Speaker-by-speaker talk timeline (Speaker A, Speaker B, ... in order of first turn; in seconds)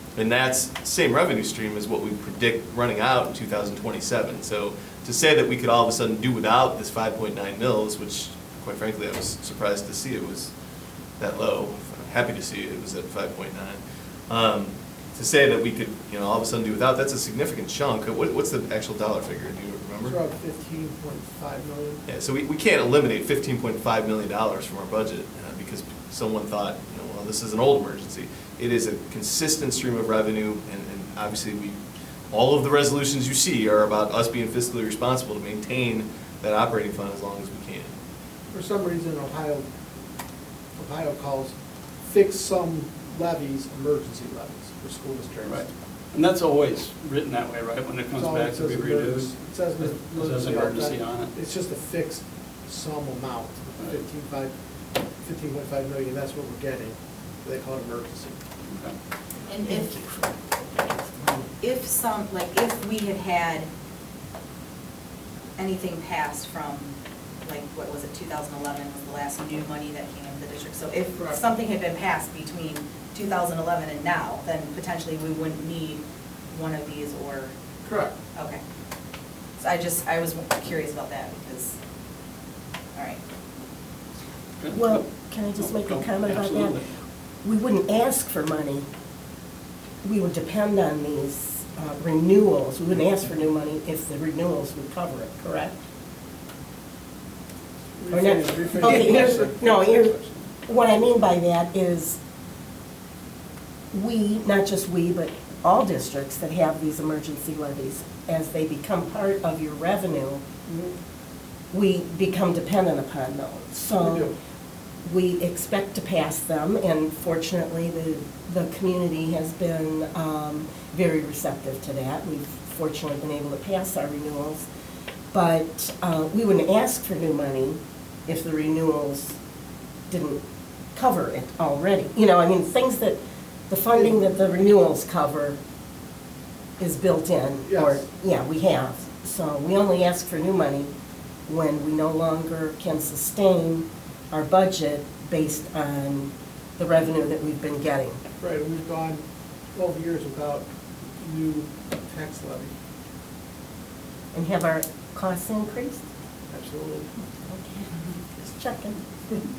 Speaker A: 0.1-10.5, 11.2-20.2, 22.1-31.8, 32.3-37.9
Speaker B: 20.0-22.0, 38.5-39.7, 40.8-45.7, 48.1-54.5, 55.2-58.4, 77.8-78.2, 98.0-99.7, 114.0-114.3, 137.7-138.0, 148.4-149.2, 149.7-150.7, 151.2-152.7, 156.5-157.1
Speaker C: 45.4-51.3, 58.7-59.0, 84.6-85.0, 85.5-86.8, 99.2-100.4
Speaker D: 59.5-60.0, 61.6-63.7, 65.6-66.9, 67.4-77.5, 78.3-78.6, 79.6-81.8
Speaker E: 84.7-86.8, 87.4-88.8, 90.0-95.8, 98.1-102.2, 103.9-110.6, 111.7-114.3, 115.0-124.7, 125.3-129.4, 130.1-130.4, 130.9-135.6, 136.8-140.9, 141.5-148.2, 154.3-156.0, 157.5-159.0